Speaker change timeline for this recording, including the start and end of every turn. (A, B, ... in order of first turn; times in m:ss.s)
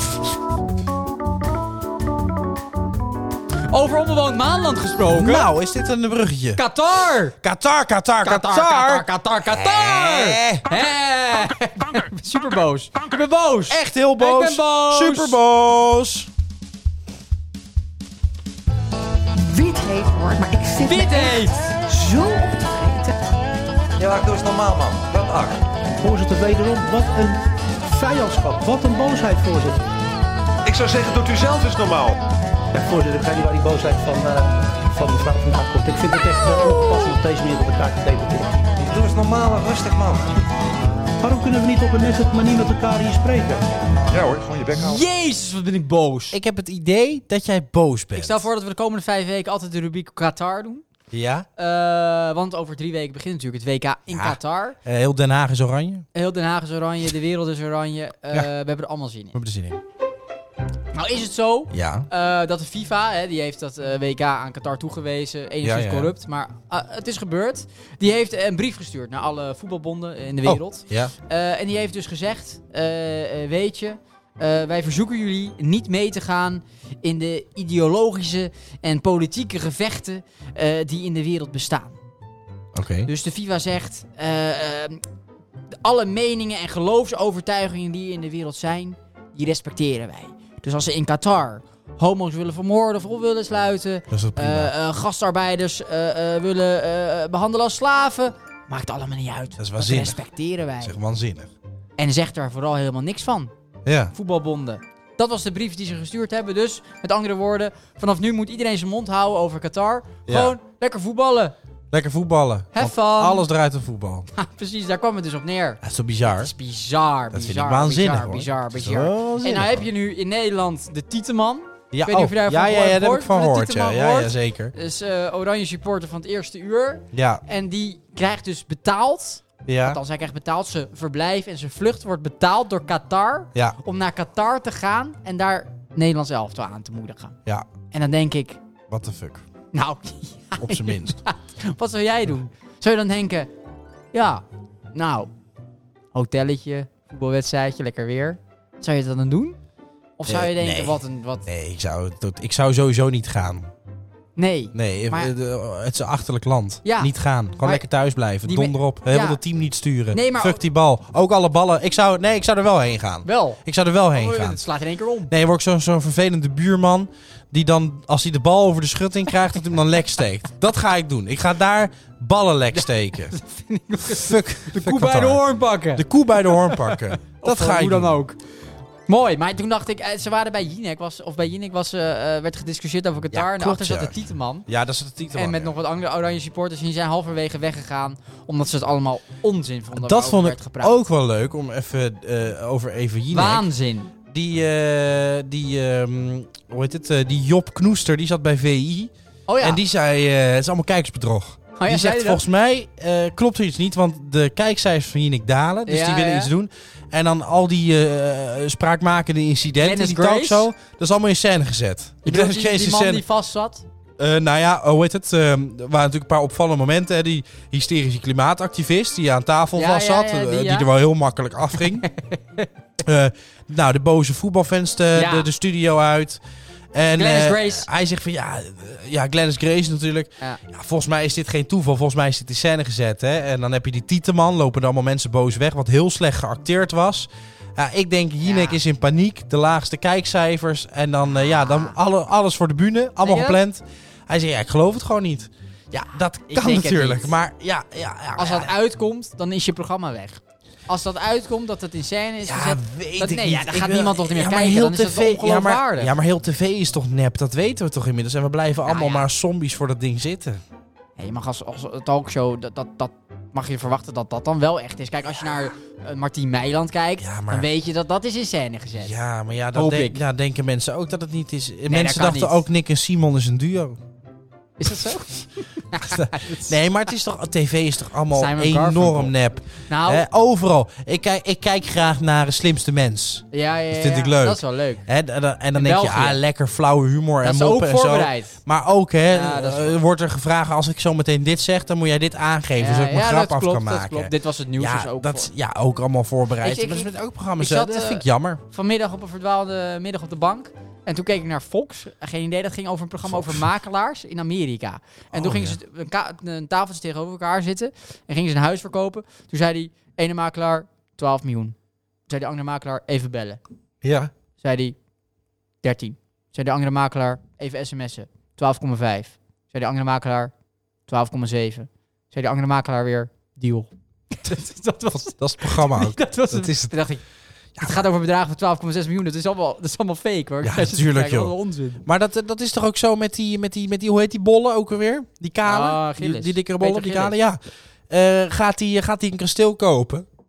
0:03.7-0:05.5 A
0:05.1-0:06.6 B
0:06.5-0:07.4 A
0:07.4-0:10.7 B
0:08.2-0:15.4 A
0:13.7-0:16.3 B
0:19.4-0:23.2 C
0:20.8-0:21.8 A
0:24.0-0:25.6 D
0:26.0-0:29.9 E
0:30.6-0:32.2 D
0:32.7-0:38.7 E
0:36.6-0:37.1 A
0:38.8-0:40.3 D
0:41.2-0:43.7 E
0:44.1-0:45.0 D
0:44.7-0:46.4 A
0:46.3-0:48.5 B
0:48.1-0:50.8 A
0:51.1-0:51.5 B
0:51.6-0:54.8 A
0:54.1-0:56.0 B
0:56.1-0:59.3 A
0:59.3-0:59.8 B
1:00.9-1:22.0 A
1:01.7-1:02.1 B
1:05.6-1:06.1 B
1:10.4-1:11.1 B
1:22.7-1:23.1 B
1:23.0-1:25.0 A
1:25.8-1:41.0 A
1:34.1-1:34.7 B
1:39.6-1:40.2 B
1:40.8-1:41.5 B
1:42.0-1:43.5 A
1:43.8-1:44.1 B
1:44.1-1:51.5 A
1:50.3-1:50.5 B
1:51.9-1:54.3 B
1:52.7-1:53.4 A
1:54.3-2:17.4 A
1:55.8-1:56.5 B
1:57.3-1:59.8 B
2:01.9-2:04.7 B
2:07.1-2:07.4 B
2:09.6-2:10.0 B
2:17.9-2:18.6 A
2:18.9-2:19.4 B
2:19.7-2:23.5 A
2:20.6-2:21.2 B
2:24.1-2:24.4 A
2:24.9-2:25.3 A
2:26.1-2:29.6 A
2:30.2-2:31.5 A
2:30.3-2:33.7 B
2:34.4-2:35.3 A
2:34.7-2:44.6 B
2:36.8-2:37.9 A
2:38.4-2:39.4 A
2:40.1-2:40.6 A
2:43.2-2:43.6 A
2:44.1-2:45.3 A
2:45.3-2:53.3 B
2:52.7-2:58.4 A
2:54.0-2:58.2 B
2:59.1-3:04.6 A
3:03.3-3:05.7 B
3:05.3-3:11.0 A
3:09.9-3:13.7 B
3:13.3-3:14.1 A
3:14.3-3:33.2 B
3:19.5-3:19.8 A
3:21.8-3:22.4 A
3:25.9-3:26.5 A
3:29.8-3:30.7 A
3:32.2-3:33.8 A
3:34.2-3:42.1 B
3:39.8-3:40.9 A
3:42.0-3:42.7 A
3:43.0-3:46.4 B
3:45.1-3:45.5 A
3:46.9-4:08.7 B
3:47.2-3:47.9 A
3:58.4-3:58.8 A
4:03.2-4:03.6 A
4:06.5-4:07.3 A
4:08.4-4:16.1 A
4:12.4-4:20.6 B
4:18.8-4:19.2 A
4:21.2-4:29.1 A
4:27.2-4:27.7 B
4:29.0-4:34.0 B
4:29.7-4:30.2 A
4:31.9-4:32.6 A
4:34.8-4:36.7 A
4:36.0-4:58.6 B
4:38.3-4:39.3 A
4:39.9-4:40.2 A
4:43.5-4:45.0 A
4:45.7-4:46.4 A
4:47.4-4:48.6 A
4:49.3-4:50.0 A
4:52.8-4:55.5 A
4:56.6-5:11.8 A
5:03.2-5:03.6 B
5:05.3-5:05.8 B
5:12.3-5:13.6 A
5:14.0-5:14.3 B
5:14.6-5:15.0 A
5:15.8-5:20.5 A
5:21.1-5:27.2 A
5:25.1-5:26.9 B
5:27.8-5:28.0 B
5:27.8-5:32.0 A
5:30.6-5:40.3 B
5:35.6-5:37.4 A